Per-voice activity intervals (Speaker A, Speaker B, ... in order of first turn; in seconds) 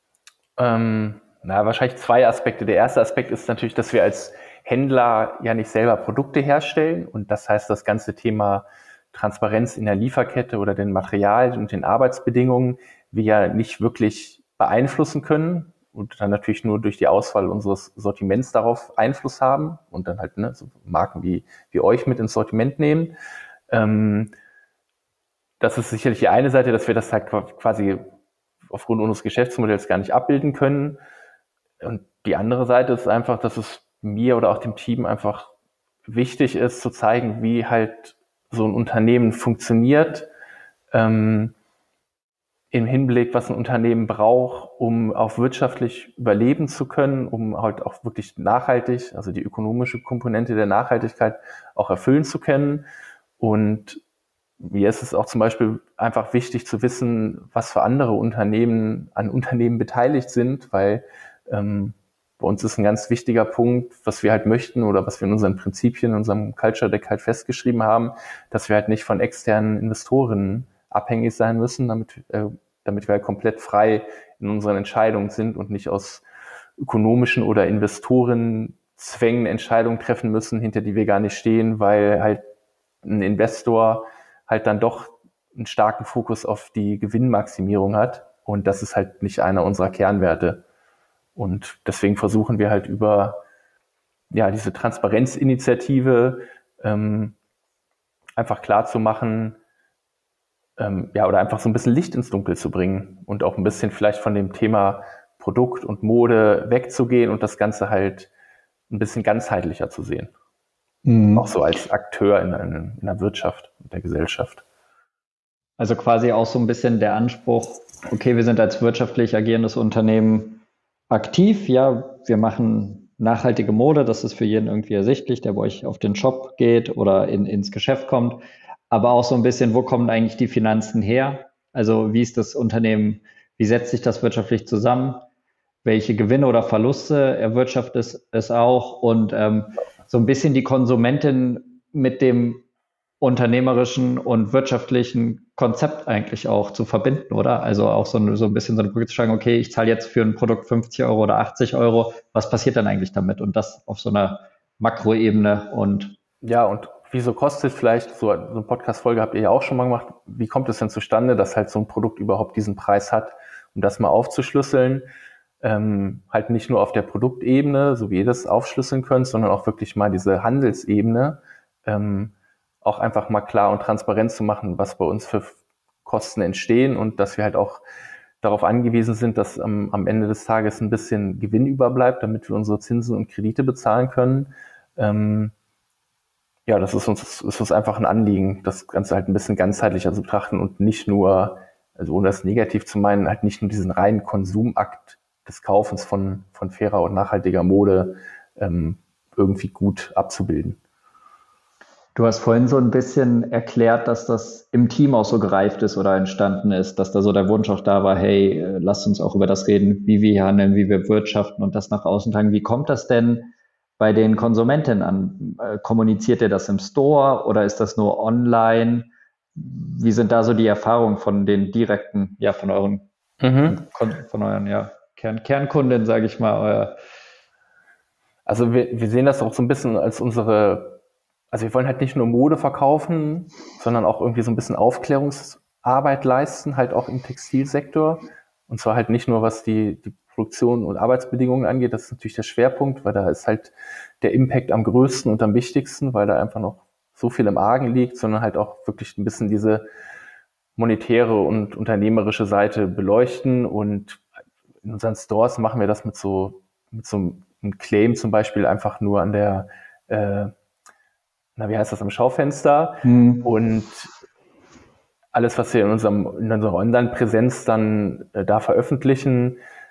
Speaker A: 0.6-23.1, 23.7-24.3, 25.6-28.1, 28.7-31.0, 31.8-35.5, 36.1-40.3, 40.9-41.5, 42.7-52.9, 53.4-54.0, 54.6-76.2, 76.8-82.4, 83.0-90.6, 91.4-93.4, 94.3-97.4, 98.4-99.6, 100.8-108.3, 108.9-110.3, 111.4-114.6, 156.4-165.1, 165.6-177.8, 178.4-185.5, 186.7-200.8, 223.4-223.8, 228.5-231.0, 231.5-249.8, 250.8-254.2, 254.8-260.5, 261.6-264.1, 265.3-269.6
Speaker B: 111.0-111.5, 115.8-135.2, 135.8-142.6, 143.2-156.2, 202.2-223.1, 223.7-227.0, 263.0-263.5